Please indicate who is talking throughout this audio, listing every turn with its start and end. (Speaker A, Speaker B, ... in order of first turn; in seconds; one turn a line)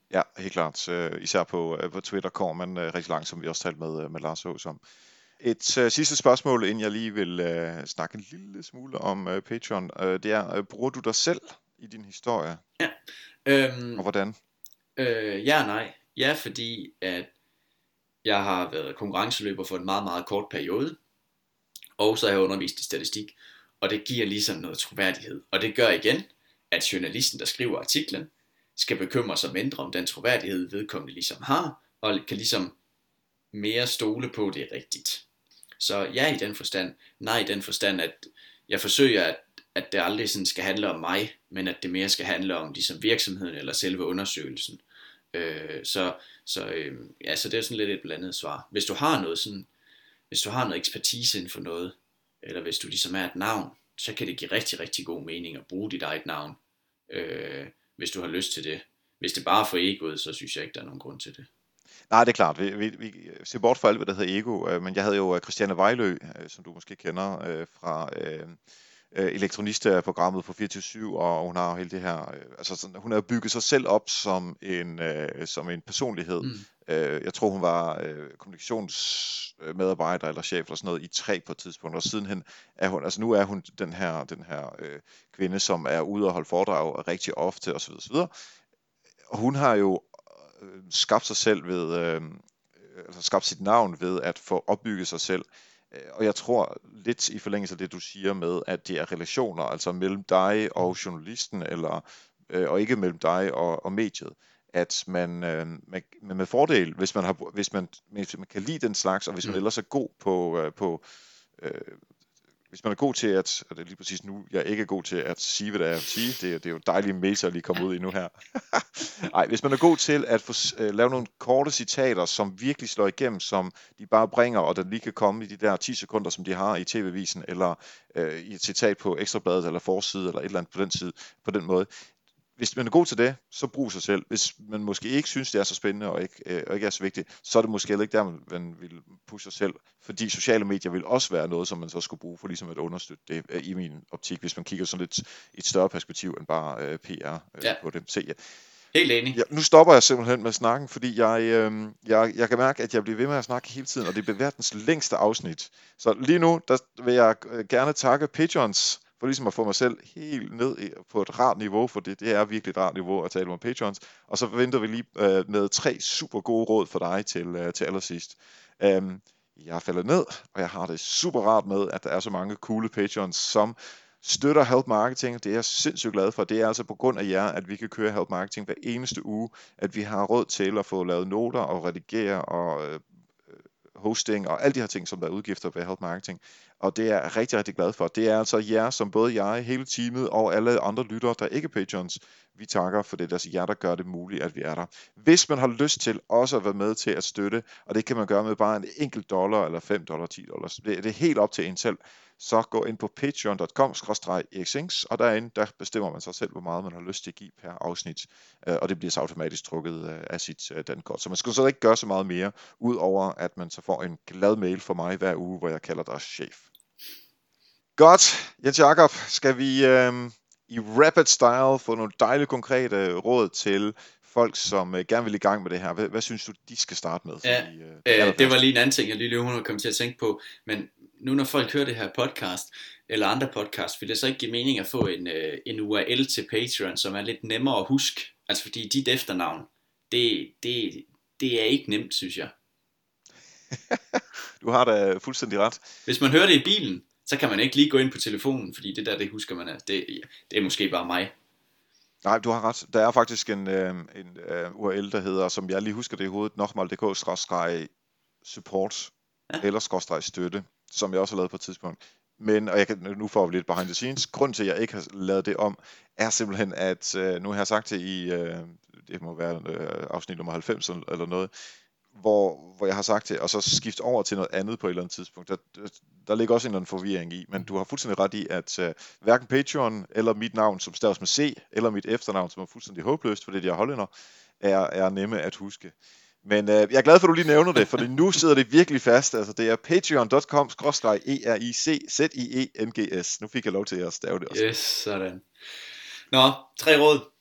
Speaker A: 0.1-4.8
Speaker A: 5.4-12.6
Speaker B: 12.8-14.0
Speaker A: 14.0-14.3
Speaker B: 15.0-17.3
Speaker B: 18.2-21.0
Speaker B: 22.0-32.7
Speaker B: 33.5-35.2
Speaker B: 35.8-44.8
Speaker B: 45.3-49.7
Speaker B: 50.3-56.6
Speaker B: 57.1-61.5
Speaker A: 62.1-68.6
Speaker A: 69.1-88.3
Speaker B: 76.4-76.7
Speaker A: 89.3-111.0
Speaker A: 111.6-112.0
Speaker A: 112.7-131.9
Speaker A: 132.6-148.4
Speaker B: 148.9-149.4
Speaker A: 149.3-183.0
Speaker A: 183.9-216.6
Speaker A: 218.0-228.6
Speaker B: 227.4-242.5
Speaker A: 243.7-245.8
Speaker B: 246.1-251.3
Speaker A: 252.2-257.9
Speaker A: 258.4-271.5
Speaker A: 272.1-284.1
Speaker A: 284.6-294.6
Speaker B: 294.5-295.4
Speaker B: 296.3-297.3